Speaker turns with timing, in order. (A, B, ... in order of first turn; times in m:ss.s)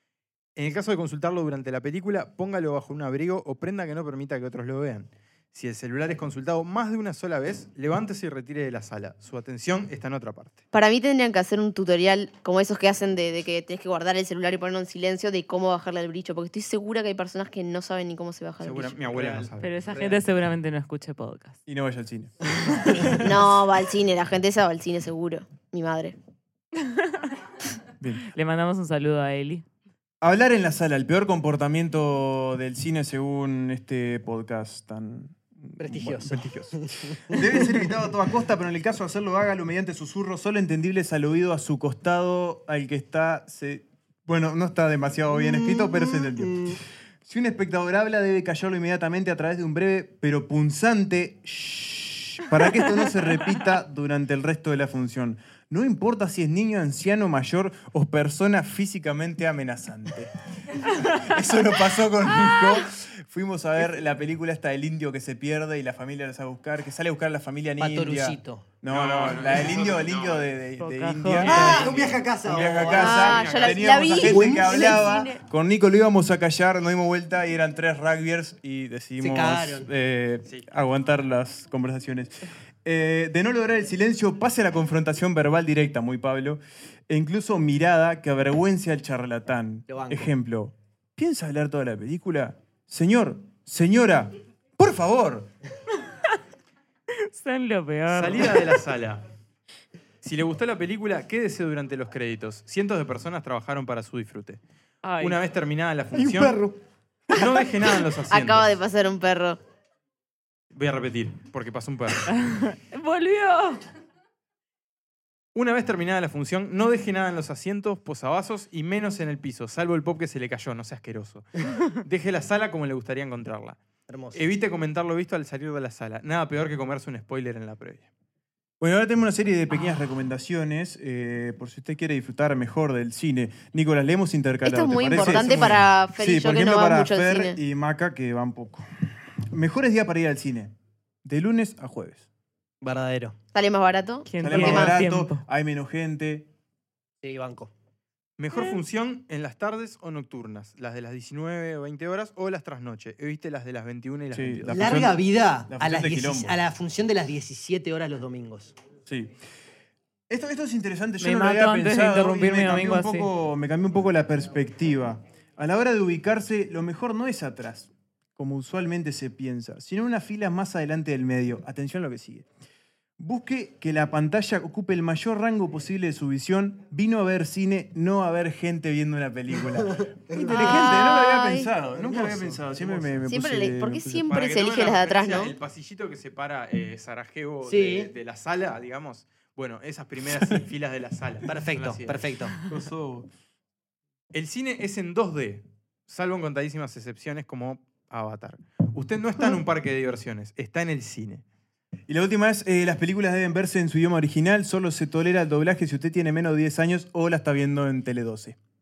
0:00.6-0:10.6 A
0:10.7-0:19.0 B
0:18.6-0:19.7 A
0:19.2-0:20.2 C
0:19.6-0:21.6 D
0:21.7-0:22.3 E
0:22.8-0:23.1 D
0:23.2-0:26.2 B
0:28.0-0:28.3 E
0:28.3-0:29.6 D
0:30.2-1:35.5 E
0:35.8-0:37.9 C
0:45.3-0:46.8 C
1:07.8-1:08.7 C
1:08.9-1:10.5 A
1:10.8-1:11.8 D
1:11.4-1:13.3 C
1:11.5-1:14.0 A
1:12.9-1:15.4 B
1:14.2-1:15.0 C
1:19.2-1:19.9 C
1:29.9-1:30.3 C
1:37.2-1:38.6 D
1:38.1-1:39.2 A
1:40.2-1:44.6 A
1:45.0-1:45.4 D
1:45.2-1:46.6 A
1:46.1-1:46.8 C
1:47.3-1:48.7 A
1:48.3-1:49.6 B
1:50.7-1:52.3 A
1:52.3-1:53.8 D
1:55.6-2:03.8 A
2:04.1-2:04.4 C
2:04.3-2:08.1 A
2:08.8-2:18.8 E
2:14.6-2:17.6 B
2:15.1-2:15.9 A
2:19.5-2:20.7 E
2:21.2-2:22.2 E
2:22.8-2:23.4 C
2:23.5-2:25.0 B
2:24.3-2:25.4 D
2:24.4-2:26.5 E
2:27.2-2:27.7 C
2:28.4-2:35.1 A
2:34.3-2:36.6 E
2:34.7-2:38.7 C
2:39.1-2:39.3 E
2:40.3-2:52.5 E
2:41.2-2:43.3 D
2:53.2-3:04.3 E
2:59.9-3:01.0 C
3:00.5-3:01.7 B
3:01.9-3:03.2 C
3:03.3-3:05.5 B
3:04.3-3:12.3 A
3:07.6-3:08.1 C
3:11.5-3:12.6 C
3:12.7-3:13.3 E
3:14.3-3:21.4 A
3:22.1-3:28.6 E